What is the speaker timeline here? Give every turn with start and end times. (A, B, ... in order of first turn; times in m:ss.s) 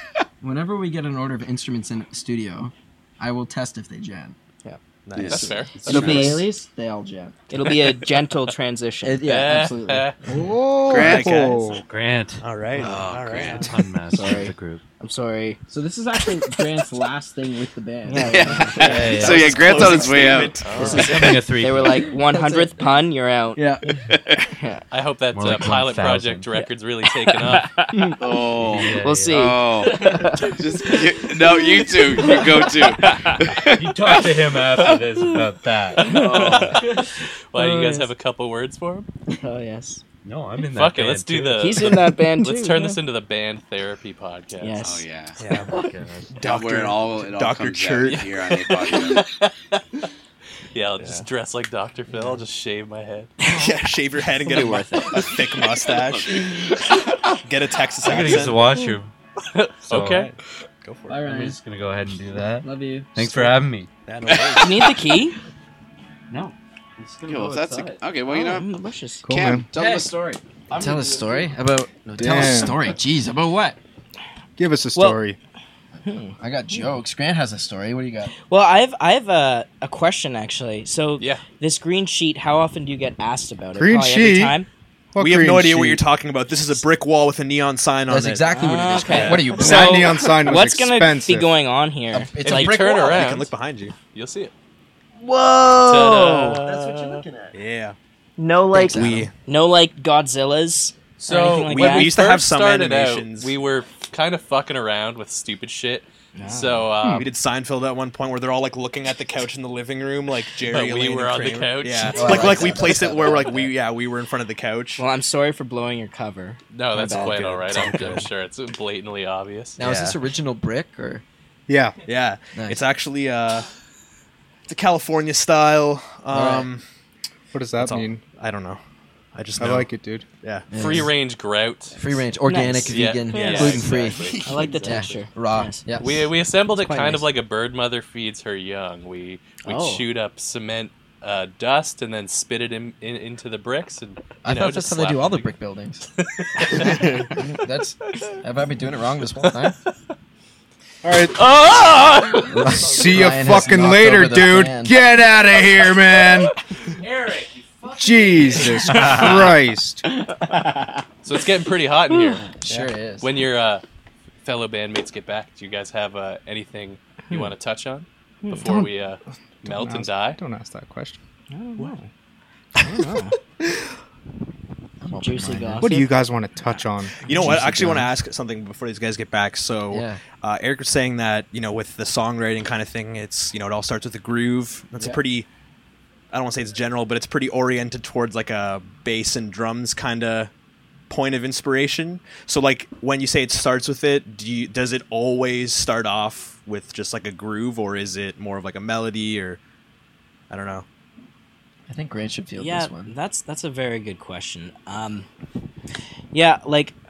0:00.4-0:04.4 A
0:05.0-0:05.7 B
0:05.2-0:06.4 C
0:05.2-0:06.3 D
0:05.8-0:07.4 A
0:05.9-0:06.4 E
0:07.5-0:09.3 E
0:09.0-0:10.6 A
0:09.2-0:10.2 D
0:10.3-0:11.8 F
0:10.9-0:11.4 C
0:10.9-0:11.8 B
0:11.8-0:12.4 G
0:12.4-0:13.7 B
0:12.8-0:13.7 C
0:13.3-0:14.8 G
0:14.1-0:15.6 E
0:14.2-0:14.4 A
0:15.7-0:19.5 A
0:18.0-0:19.2 E
0:18.2-0:20.7 C
0:18.8-0:19.9 G
0:19.1-0:21.4 B
0:20.6-0:21.2 D
0:20.8-0:22.1 G
0:20.8-0:23.6 E
0:22.1-0:22.9 A
0:23.6-0:24.0 A
0:24.0-0:24.5 C
0:24.6-0:24.8 E
0:24.9-0:27.7 D
0:25.3-0:26.5 G
0:27.2-0:28.2 E
0:28.2-0:34.1 C
0:28.6-0:29.4 G
0:28.9-0:32.7 E
0:33.5-0:36.1 G
0:35.9-0:37.0 D
0:36.0-0:36.8 E
0:36.1-0:36.8 C
0:37.5-0:39.1 D
0:37.5-0:38.1 E
0:39.3-0:40.0 E
0:40.2-0:41.7 G
0:40.7-0:44.8 D
0:41.6-0:43.0 E
0:44.6-0:45.0 E
0:44.8-0:45.4 C
0:45.4-0:45.7 B
0:45.7-0:46.3 G
0:46.3-0:48.3 B
0:46.4-0:49.2 C
0:48.1-0:49.8 D
0:50.7-0:53.3 D
0:51.0-0:51.3 B
0:53.4-0:53.7 E
0:53.5-0:56.6 B
0:54.3-0:55.4 E
0:57.4-0:58.6 B
0:58.0-0:59.1 G
0:59.5-1:00.3 D
0:59.9-1:01.2 B
1:01.1-1:01.6 A
1:01.2-1:03.9 G
1:02.6-1:03.1 A
1:03.2-1:03.5 B
1:04.1-1:04.8 B
1:04.5-1:05.4 E
1:06.3-1:08.0 G
1:07.2-1:08.8 C
1:08.3-1:09.3 E
1:09.2-1:09.7 F
1:09.3-1:10.1 C
1:09.7-1:13.8 A
1:12.2-1:12.9 F
1:14.6-1:15.4 F
1:14.9-1:15.2 E
1:16.0-1:16.9 E
1:16.4-1:18.3 A
1:18.4-1:24.7 E
1:23.7-1:24.6 F
1:25.1-1:26.0 F
1:25.2-1:29.5 B
1:28.1-1:30.1 A
1:28.5-1:32.7 E
1:29.5-1:31.5 F
1:32.1-1:33.2 A
1:32.4-1:33.5 D
1:32.5-1:33.9 B
1:34.1-1:34.5 D
1:35.2-1:36.6 E
1:35.8-1:37.2 D
1:36.6-1:37.5 A
1:37.5-1:38.0 B
1:38.4-1:42.3 E
1:38.7-1:39.3 A
1:38.8-1:39.3 B
1:41.2-1:47.3 D
1:41.2-1:43.5 B
1:46.4-1:47.3 E
1:47.2-1:55.0 B
1:50.6-1:52.7 D
1:52.1-1:53.7 A
1:52.3-1:52.8 E
1:55.0-1:57.4 E
1:56.7-1:59.8 D
1:57.1-1:58.3 B
1:59.8-2:01.2 A
1:59.8-2:00.2 B
2:01.7-2:02.0 F
2:02.1-2:03.7 B
2:02.5-2:02.8 A
2:04.7-2:06.8 B
2:06.3-2:06.7 A
2:07.5-2:08.2 F
2:07.8-2:08.8 B
2:09.3-2:09.9 B
2:09.6-2:10.3 F
2:10.4-2:10.7 B
2:10.7-2:11.1 A
2:10.7-2:12.2 D
2:11.9-2:16.3 A
2:12.4-2:15.9 E
2:12.7-2:15.1 D
2:13.3-2:14.6 B
2:16.0-2:25.5 D
2:16.9-2:17.2 A
2:19.6-2:20.0 E
2:24.4-2:26.0 A
2:26.2-2:27.3 D
2:26.6-2:29.8 A
2:29.4-2:29.7 D
2:31.0-2:32.0 F
2:31.3-2:32.9 D
2:32.5-2:35.0 A
2:32.5-2:36.5 F
2:37.0-2:39.2 G
2:37.9-2:40.0 F
2:38.9-2:39.3 B
2:39.0-2:39.3 A
2:40.5-2:40.8 A
2:41.2-2:42.5 D
2:42.1-2:42.4 E
2:42.5-2:43.3 A
2:43.2-2:43.8 D
2:44.4-2:50.4 D
2:48.4-2:48.7 E
2:49.6-2:51.2 F
2:51.5-2:52.0 E
2:52.8-2:53.4 E
2:55.0-2:56.0 A
2:55.2-2:56.8 E
2:55.8-2:57.6 F
2:57.2-3:05.5 B
2:57.3-2:58.1 A
2:59.9-3:00.2 A
3:06.3-3:10.5 B
3:11.1-3:19.6 B
3:20.5-3:20.8 B
3:21.9-3:23.1 A
3:22.6-3:25.3 E
3:26.3-3:26.9 E